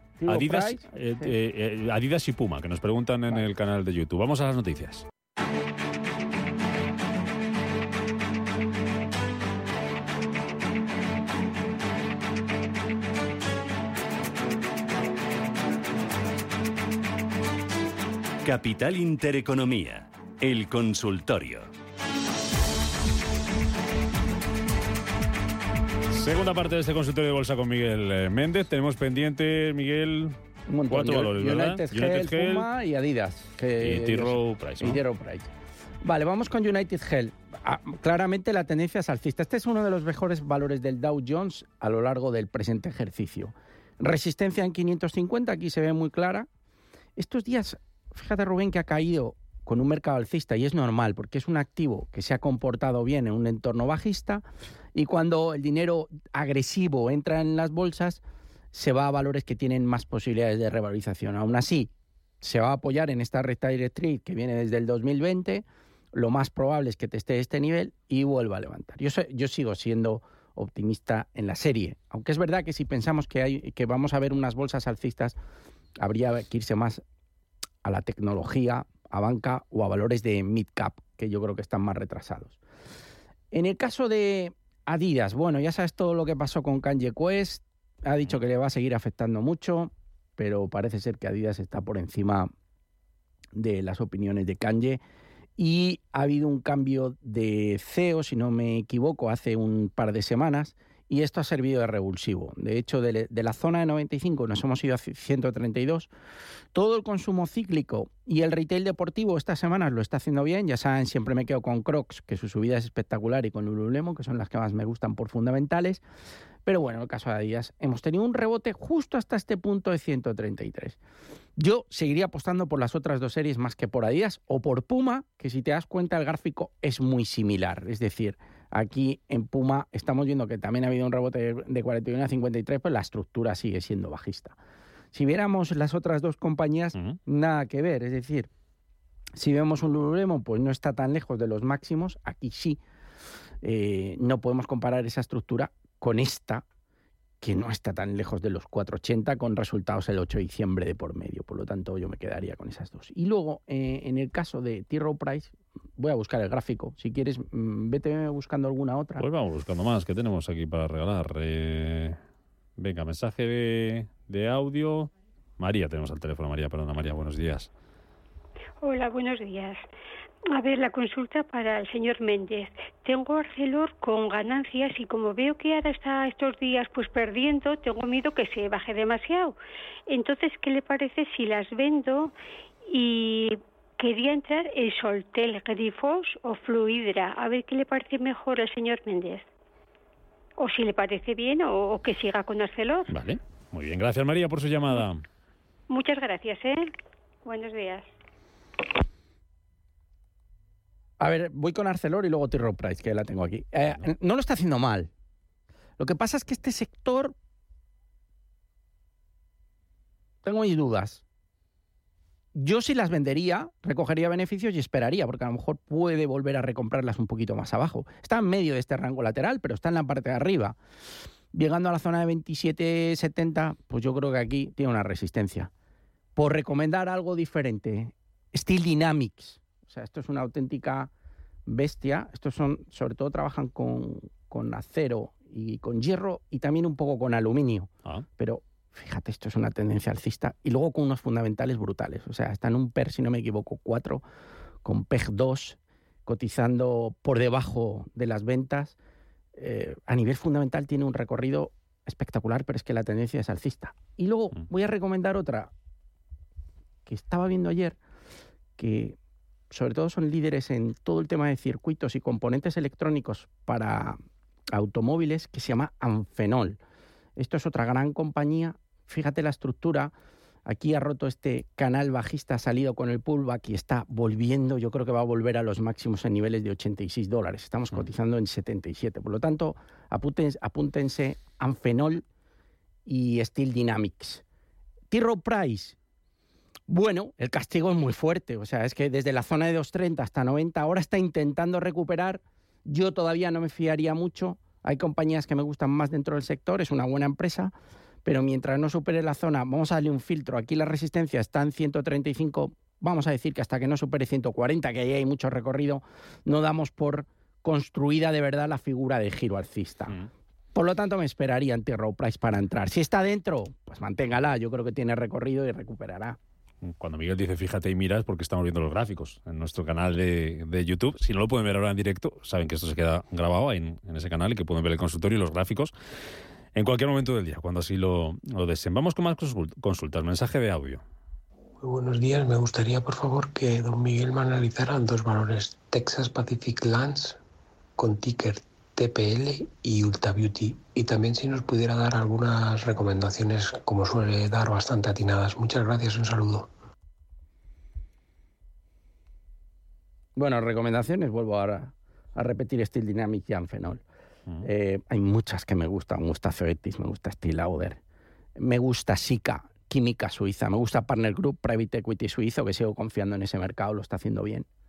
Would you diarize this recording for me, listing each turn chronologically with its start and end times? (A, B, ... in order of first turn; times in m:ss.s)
0:00.2-0:01.3 A
0:00.3-0:05.0 B
0:18.4-0:21.7 C
0:26.1-0:30.3 B
0:30.7-0:35.5 A
0:30.9-0:32.7 B
0:33.8-0:35.0 B
0:36.0-0:46.5 A
0:47.2-0:58.2 A
0:58.7-1:15.4 A
1:16.0-1:17.0 A
1:17.8-1:22.6 A
1:23.5-1:32.5 A
1:33.6-1:35.0 A
1:35.6-1:46.1 A
1:46.7-1:56.0 A
1:56.6-2:01.0 A
2:01.6-2:14.6 A
2:15.1-2:18.5 A
2:19.3-2:22.8 A
2:23.6-2:26.6 A
2:27.4-2:39.2 A
2:39.2-2:42.2 B
2:42.8-2:47.7 B
2:48.8-2:49.8 D
2:50.5-2:59.6 D
3:00.1-3:02.3 D
3:02.9-3:09.4 D
3:10.6-3:13.1 D
3:13.1-3:15.2 B
3:15.9-3:16.9 D
3:17.4-3:18.1 D
3:21.2-3:25.1 A
3:26.0-3:27.4 A
3:30.4-3:31.2 A
3:32.5-3:40.8 A
3:41.5-3:45.7 A
3:46.4-3:51.1 A
3:51.6-4:04.2 A
4:04.8-4:09.0 A
4:09.6-4:15.7 A
4:17.1-4:18.0 A
4:18.8-4:19.2 A
4:19.7-4:24.2 A
4:24.7-4:26.8 A
4:27.4-4:30.1 A
4:30.6-4:42.2 A
4:43.0-4:44.4 A
4:45.1-4:46.0 A
4:46.9-4:57.7 A
4:58.2-5:10.2 A
5:10.8-5:16.4 A
5:16.8-5:25.9 B
5:26.8-5:31.0 B
5:31.8-5:37.4 E
5:38.0-5:46.7 E
5:50.4-5:54.0 A
5:54.6-5:58.0 A
5:58.6-6:04.7 A